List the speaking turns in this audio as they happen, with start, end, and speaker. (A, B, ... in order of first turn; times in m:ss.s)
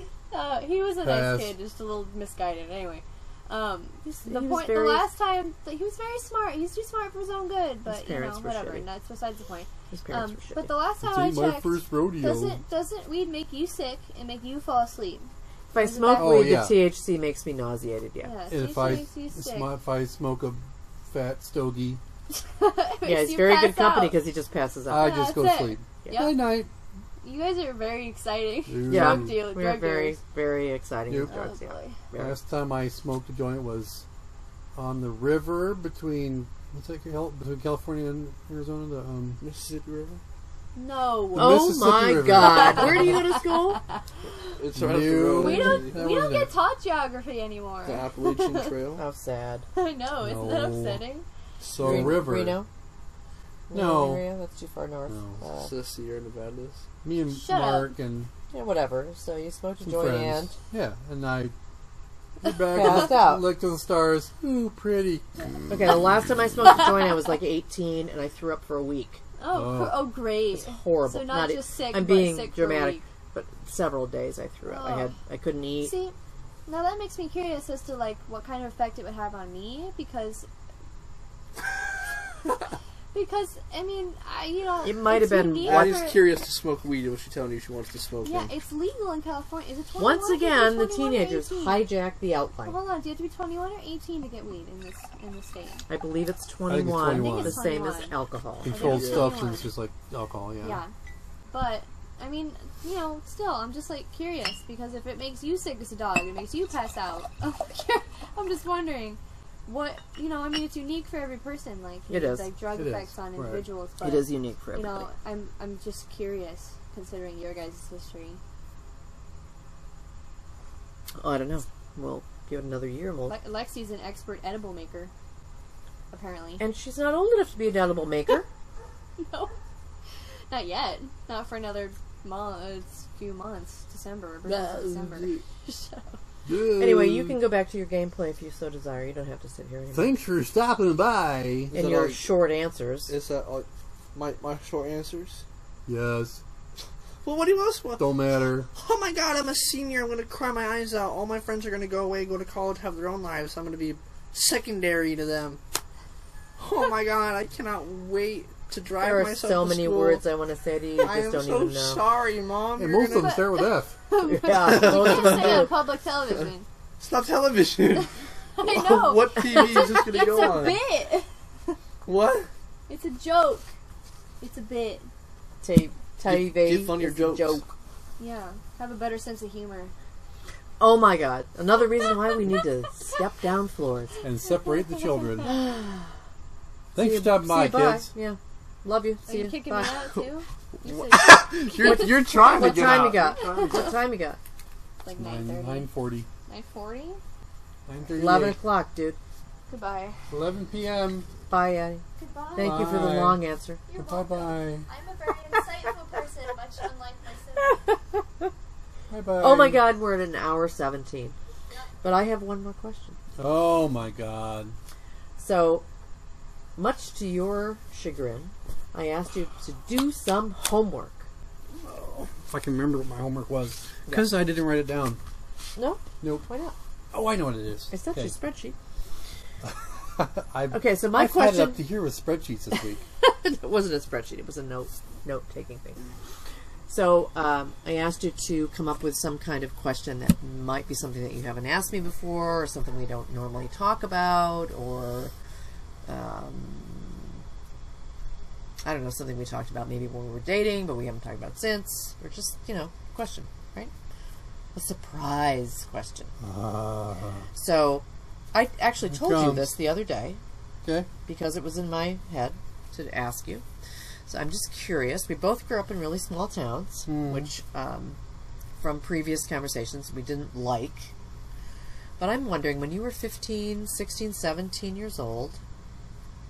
0:00.3-0:16.6 A
0:01.0-0:01.6 B
0:04.0-0:05.1 C
0:07.9-0:08.9 C
0:09.9-0:10.7 C
0:11.0-0:12.6 B
0:15.7-0:18.4 C
0:16.2-0:16.8 B
0:18.2-0:19.7 A
0:18.5-0:22.0 B
0:22.3-0:24.2 A
0:23.0-0:25.2 C
0:24.9-0:26.7 B
0:25.0-0:26.4 A
0:27.2-0:30.2 A
0:28.7-0:29.4 B
0:28.9-0:32.4 C
0:31.1-0:31.3 B
0:31.3-0:32.0 A
0:32.1-0:34.0 B
0:34.8-0:39.4 B
0:39.4-0:40.2 D
0:40.8-0:41.6 A
0:41.3-0:43.2 B
0:41.4-0:43.8 C
0:42.4-0:43.3 A
0:44.6-0:46.0 D
0:44.7-0:46.5 B
0:45.4-0:48.7 A
0:47.8-0:49.0 D
0:49.0-0:49.6 C
0:49.7-0:51.2 A
0:50.2-0:51.0 B
0:51.6-0:52.6 B
0:51.7-0:52.2 D
0:51.8-0:52.7 C
0:53.7-0:55.7 C
0:53.7-0:54.2 B
0:55.1-0:55.4 B
0:55.6-0:56.8 D
0:57.0-0:58.3 B
0:57.3-0:57.9 A
0:58.5-1:00.6 C
0:59.8-1:01.5 B
1:02.4-1:06.1 B
1:02.7-1:03.4 C
1:05.7-1:09.2 C
1:09.4-1:13.0 A
1:09.5-1:10.2 B
1:10.5-1:15.9 C
1:14.6-1:15.1 A
1:15.8-1:16.1 A
1:16.7-1:20.5 A
1:23.1-1:26.2 A
1:24.8-1:26.1 C
1:25.6-1:28.5 D
1:28.2-1:31.8 A
1:30.0-1:32.8 C
1:32.6-1:35.8 A
1:35.9-1:38.7 C
1:36.7-1:37.6 B
1:37.1-1:38.2 A
1:38.6-1:40.8 B
1:38.7-1:39.7 A
1:38.8-1:39.3 D
1:40.6-1:40.9 A
1:41.5-1:58.4 A
1:52.1-1:52.5 C
1:52.7-1:53.6 B
1:54.0-1:55.1 C
2:01.2-2:03.4 C
2:03.3-2:05.1 A
2:06.1-2:06.6 A
2:06.6-2:08.5 C
2:09.2-2:09.5 A
2:10.5-2:16.2 A
2:14.5-2:15.4 D
2:16.4-2:17.4 B
2:16.7-2:20.1 C
2:19.9-2:21.7 B
2:21.7-2:22.3 D
2:21.7-2:23.1 C
2:23.1-2:25.4 D
2:25.9-2:26.4 B
2:27.2-2:28.0 D
2:28.0-2:28.7 B
2:28.7-2:35.6 D
2:36.6-2:40.2 D
2:39.0-2:42.1 C
2:41.0-2:43.4 D
2:42.8-2:44.0 B
2:43.1-2:46.7 A
2:44.2-2:45.7 C
2:44.5-2:45.7 D
2:47.0-2:50.8 D
2:48.6-2:51.8 A
2:52.0-2:52.5 D
2:52.9-2:53.7 A
2:54.4-2:55.1 A
2:55.6-2:57.7 C
2:56.2-2:57.6 D
2:58.2-2:59.9 A
3:00.8-3:04.2 C
3:04.2-3:05.5 B
3:04.6-3:05.5 A
3:05.4-3:06.2 C
3:06.9-3:08.1 B
3:07.0-3:10.0 C
3:09.3-3:12.1 A
3:10.8-3:13.8 D
3:11.8-3:14.4 C
3:11.8-3:13.6 B
3:13.4-3:13.9 A
3:15.0-3:15.9 A
3:15.2-3:16.3 B
3:16.5-3:17.2 A
3:17.9-3:18.6 B
3:18.1-3:19.2 C
3:19.7-3:20.2 A
3:20.3-3:21.3 B
3:21.5-3:22.0 C
3:22.2-3:23.0 A
3:22.6-3:23.8 C
3:22.6-3:24.9 B
3:23.9-3:27.8 A
3:27.6-3:28.5 C
3:29.1-3:29.9 B
3:29.4-3:31.4 C
3:32.0-3:33.2 C
3:33.4-3:34.7 B
3:35.4-3:35.9 C
3:36.8-3:41.3 C
3:41.7-3:42.3 D
3:42.5-3:45.2 B
3:45.8-3:46.8 C
3:46.2-3:46.5 B
3:47.1-3:48.4 B
3:47.9-3:48.8 C
3:49.6-3:53.0 B
3:50.7-3:51.8 C
3:53.2-3:56.0 C
3:56.9-4:05.3 C
4:06.1-4:07.4 C
4:08.8-4:13.9 C
4:14.7-4:16.3 C
4:16.4-4:17.5 B
4:17.6-4:20.4 C
4:19.1-4:19.7 B
4:21.3-4:23.6 C
4:24.3-4:28.2 C
4:27.1-4:27.5 B
4:28.8-4:31.1 C
4:32.2-4:35.6 C